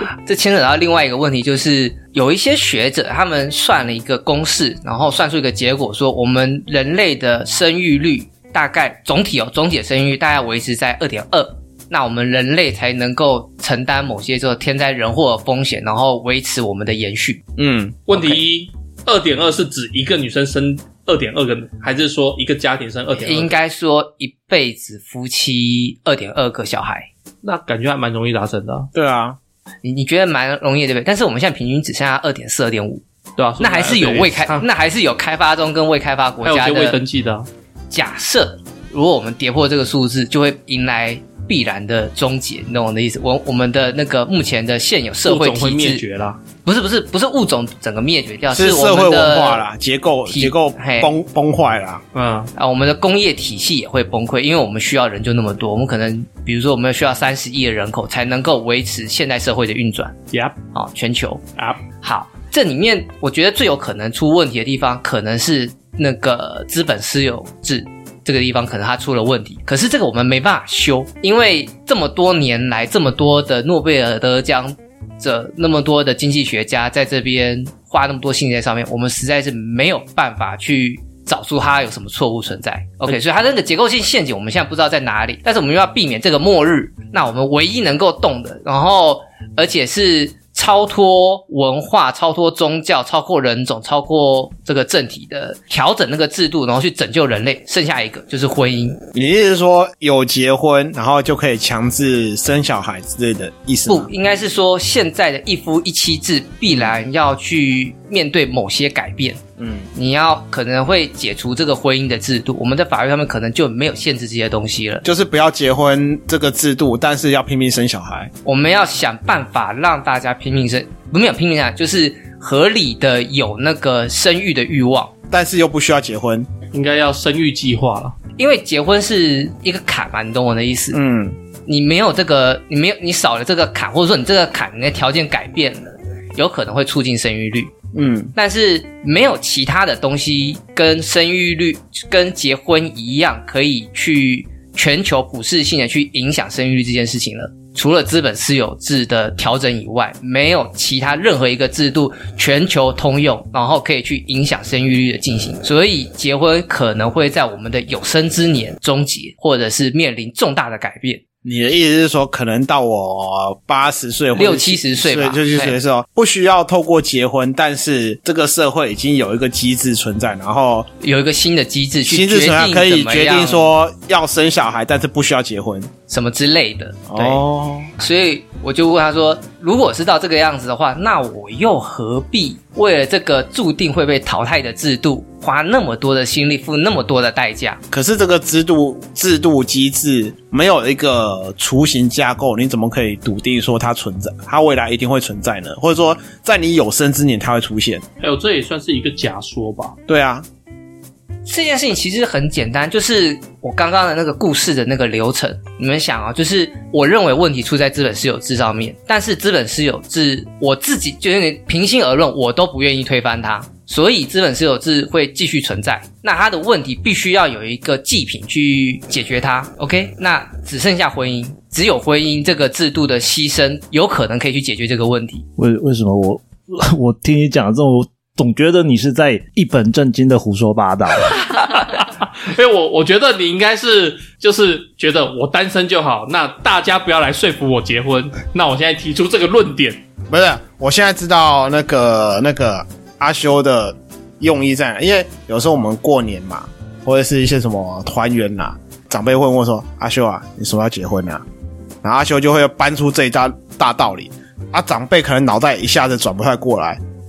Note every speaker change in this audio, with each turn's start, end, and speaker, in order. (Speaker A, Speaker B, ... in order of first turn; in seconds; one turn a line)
Speaker A: 0.2-17.4
Speaker B: 17.6-18.4
Speaker C: 18.1-23.5
Speaker A: 23.1-27.1
Speaker C: 27.4-28.9
Speaker B: 28.9-29.4
Speaker A: 29.8-33.0
Speaker C: 33.4-34.7
Speaker A: 33.6-37.0
Speaker C: 36.4-37.5
Speaker A: 37.9-46.0
Speaker C: 45.2-46.4
Speaker A: 46.6-49.7
Speaker B: 48.5-52.0
Speaker A: 50.3-51.1
Speaker C: 52.1-52.5
Speaker A: 52.5-60.2
Speaker A: 60.7-61.4
Speaker A: 62.0-99.0
Speaker B: 99.1-104.1
Speaker A: 103.8-109.4
Speaker B: 109.6-109.9
Speaker A: 109.9-115.0
Speaker B: 115.0-118.3
Speaker A: 118.4-125.1
Speaker B: 125.3-126.5
Speaker C: 126.7-128.1
Speaker A: 128.4-131.0
Speaker B: 130.9-131.4
Speaker A: 131.7-137.7
Speaker B: 137.9-138.3
Speaker A: 138.3-161.2
Speaker B: 161.4-170.9
Speaker A: 164.3-165.8
Speaker A: 171.0-173.6
Speaker B: 172.0-175.9
Speaker A: 176.1-177.4
Speaker B: 177.1-177.9
Speaker A: 178.0-187.8
Speaker B: 187.9-198.0
Speaker C: 198.2-200.0
Speaker B: 200.1-200.4
Speaker A: 201.4-225.4
Speaker D: 225.6-231.3
Speaker C: 231.5-240.0
Speaker B: 240.3-251.4
Speaker B: 252.0-257.0